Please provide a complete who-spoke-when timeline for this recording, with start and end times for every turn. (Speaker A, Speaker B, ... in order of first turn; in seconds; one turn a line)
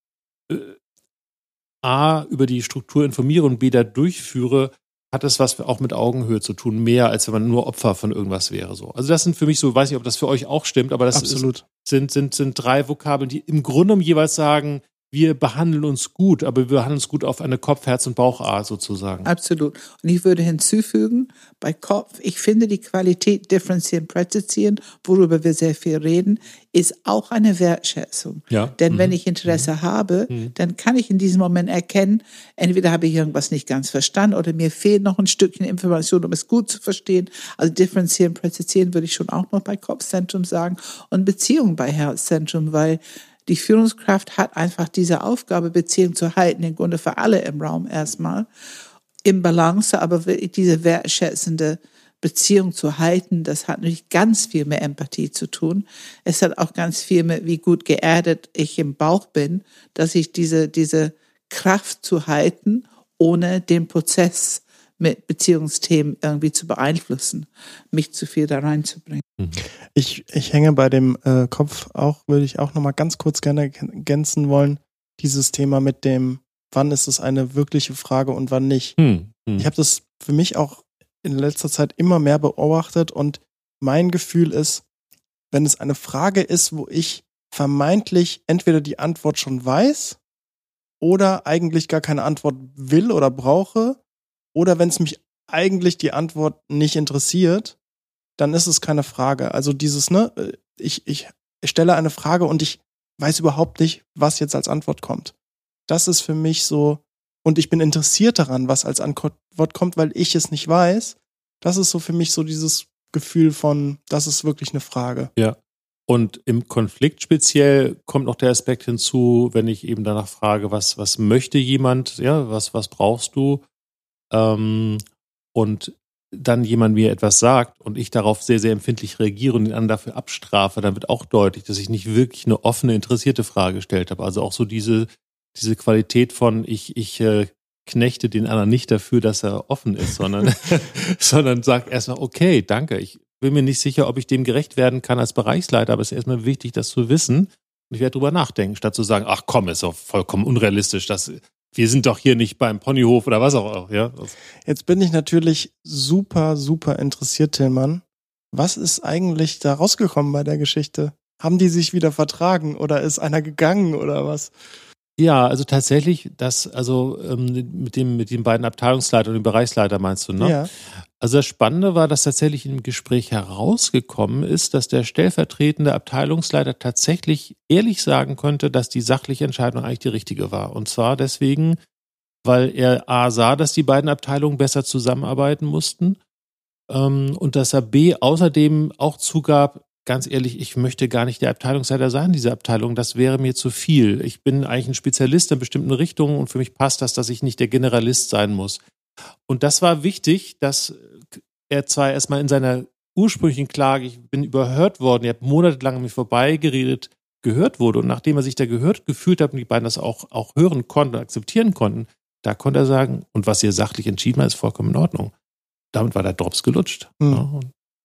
Speaker A: 0.5-0.8
Speaker A: 1.8-19.3
Speaker B: 11.1-11.7
Speaker C: 19.2-48.5
Speaker A: 28.5-29.7
Speaker A: 30.3-30.5
Speaker C: 49.2-69.2
Speaker B: 69.9-79.0
Speaker A: 79.0-79.7
Speaker B: 79.6-84.8
Speaker B: 85.5-90.2
Speaker B: 91.0-94.0
Speaker B: 94.5-97.8
Speaker B: 98.4-105.3
Speaker B: 105.9-115.3
Speaker A: 116.1-123.6
Speaker A: 124.3-125.0
Speaker A: 125.5-154.3
Speaker B: 154.6-164.5
Speaker A: 165.2-170.6
Speaker B: 170.4-170.7
Speaker A: 171.2-181.8
Speaker A: 182.4-186.2
Speaker A: 186.9-198.8
Speaker A: 199.5-215.3
Speaker A: 215.9-217.7
Speaker B: 217.2-217.4